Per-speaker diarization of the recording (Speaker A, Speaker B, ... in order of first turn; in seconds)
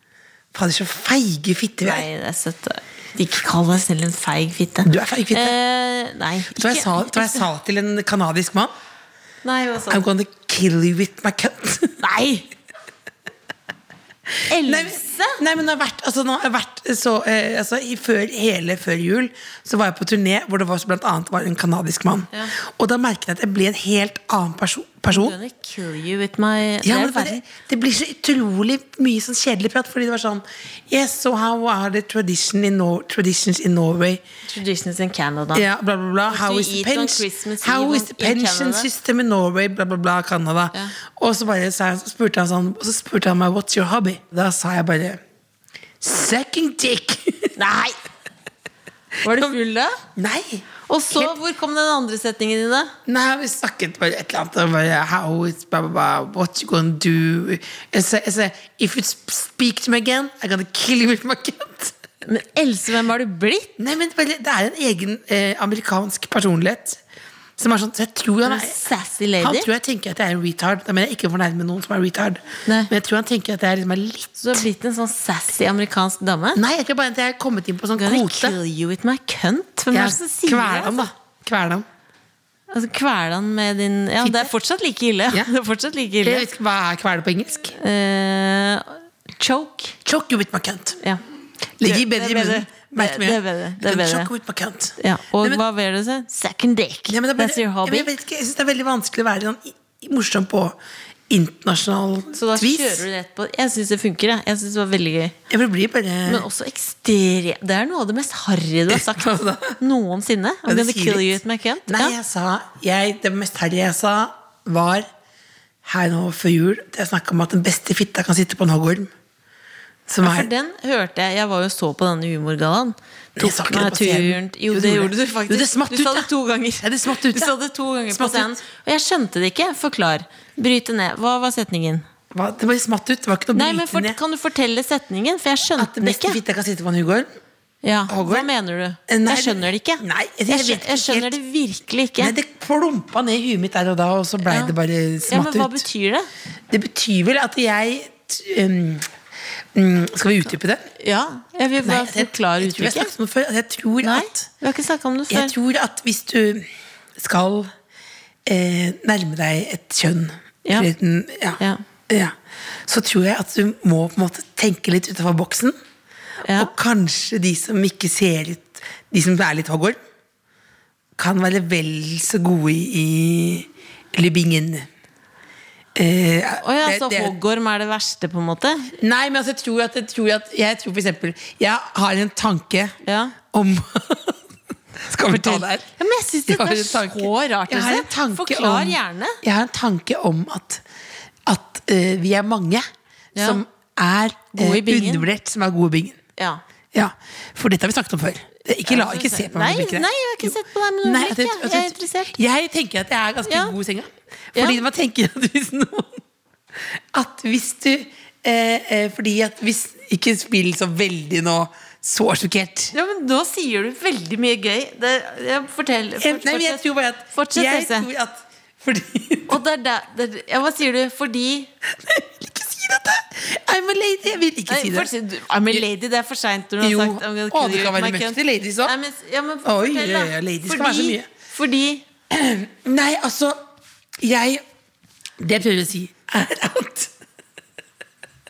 Speaker A: 0.5-2.1, 4.8-5.5, 6.5-8.7, 9.9-12.0, 14.6-25.4, 26.8-34.2, 35.5-45.2, 46.0-47.5, 49.3-49.6, 50.2-51.4, 53.1-61.9, 63.8-67.0, 67.6-68.8, 69.4-74.6, 76.6-78.6, 79.9-81.9, 84.2-84.5, 86.2-87.8, 90.0-91.0, 91.8-95.6, 97.1-100.8, 101.3-103.0, 105.5-106.5, 108.9-109.8, 110.7-115.1, 115.8-119.1, 120.1-120.5, 123.4-126.3, 126.8-127.5, 128.1-128.6, 132.3-134.2, 135.8-137.3, 138.1-138.5, 139.1-141.3, 142.2-145.8, 146.7-149.1, 149.8-150.9, 151.8-154.5, 155.3-157.7, 158.5-162.3, 162.9-165.8, 166.6-170.0, 171.2-174.9, 176.0-177.4, 179.0-184.4, 185.0-185.9, 186.5-190.8, 191.5-192.9, 193.4-196.2, 196.9-206.2, 206.8-212.9, 216.2-219.6, 222.0-225.1, 226.8-228.9, 229.6-231.3, 232.3-233.6, 234.2-234.6, 235.4-237.1
Speaker B: 1.8-7.4, 9.4-10.0, 12.0-12.5, 14.5-15.4, 25.1-27.4, 34.5-35.7, 36.3-38.9, 47.6-48.0, 49.2-50.0, 50.9-52.9, 62.2-63.7, 68.5-69.7, 72.7-72.9, 74.4-76.6, 78.0-81.1, 82.7-86.5, 87.8-90.0, 91.8-94.3, 95.0-98.1, 102.3-105.4, 106.3-112.2, 120.2-132.0, 133.5-136.4, 137.8-142.3, 144.5-144.7, 145.3-146.3, 151.0-153.1, 154.0-155.5, 160.7-160.9, 166.4-166.7, 176.6-178.9, 183.0-183.3, 185.3-189.4, 193.3-193.6, 194.5-195.3, 198.9-202.3, 203.5-203.8, 204.6-204.8, 212.9-218.1, 219.5-221.7, 224.7-232.0